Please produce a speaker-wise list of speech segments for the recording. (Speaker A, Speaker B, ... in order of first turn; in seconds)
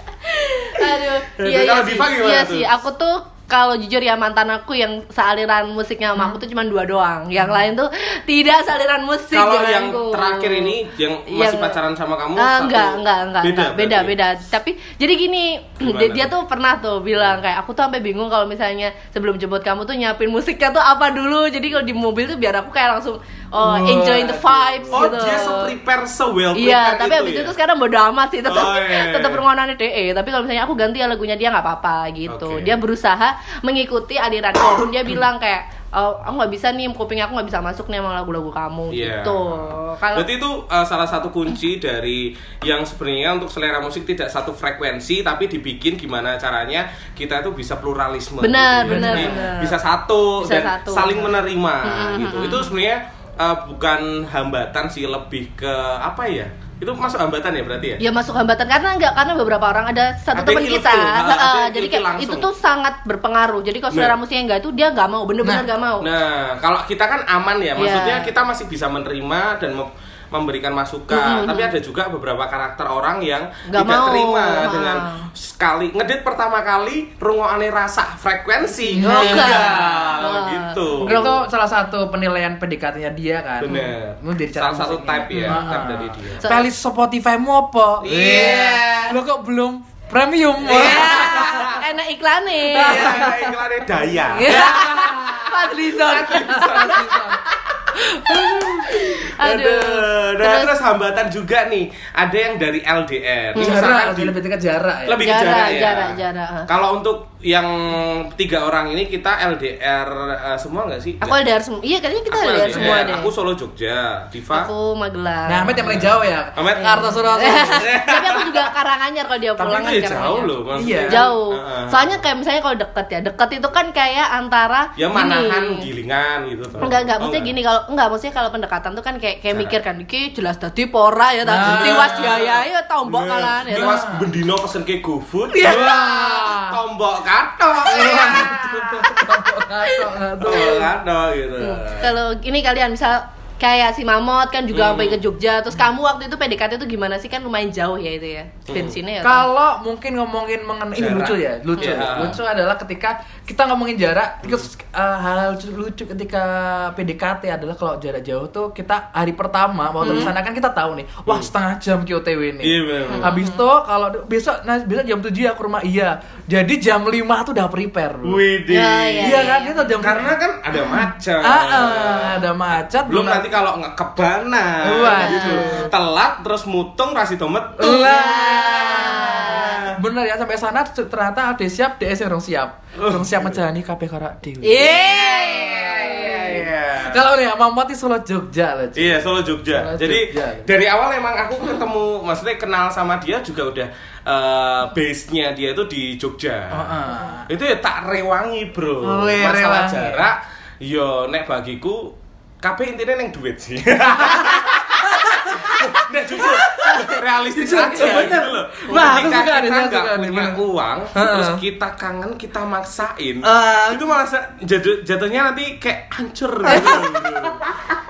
Speaker A: 0.3-11.8, 12.4-25.7, 26.5-40.3, 48.4-49.8, 50.4-51.3, 51.8-52.7, 58.0-66.1, 67.8-68.3, 71.1-71.7, 73.7-75.3, 78.9-81.3, 83.7-83.9, 85.3-85.7, 86.4-86.7, 90.6-93.2, 94.3-100.7, 103.5-103.9, 105.2-106.7, 111.2-113.3, 114.5-116.0, 116.8-120.5, 121.1-125.8, 126.8-134.1, 135.5-136.0, 139.8-140.8, 141.6-149.5, 151.8-152.1, 160.0-160.3, 163.1-163.6, 168.7-169.9, 175.0-175.9, 177.8-179.9, 184.6-186.6, 216.7-217.0
Speaker B: 1.4-2.7, 9.3-14.2, 15.8-16.3, 24.9-27.5, 28.4-29.4, 32.3-32.8, 38.9-58.0, 60.3-62.5, 63.9-64.2, 66.0-81.4, 83.6-86.5, 88.0-89.2, 90.6-91.8, 92.7-95.3, 96.0-97.2, 98.9-104.3, 105.0-111.4, 112.3-114.7, 115.8-118.7, 119.6-122.2, 125.0-127.5, 131.6-139.4, 140.4-142.1, 144.7-145.2, 148.7-149.0, 151.0-152.4, 162.6-163.3, 168.2-172.4, 173.0-178.1, 178.8-180.0, 182.9-183.6, 184.8-187.2, 188.9-217.6
Speaker C: 23.6-25.0, 48.8-49.5, 78.9-80.2, 81.0-91.8, 92.7-93.6, 94.4-95.6, 96.3-97.4, 98.0-98.8, 103.5-105.3, 115.5-117.9, 120.7-121.3, 131.4-132.4, 133.7-134.3, 135.6-136.8, 137.8-140.9, 149.2-168.4, 169.2-170.3, 171.4-173.5, 174.8-175.9, 177.8-190.7, 196.7-197.5, 199.0-200.2, 204.2-210.6, 211.1-211.6, 213.4-214.1, 216.7-217.1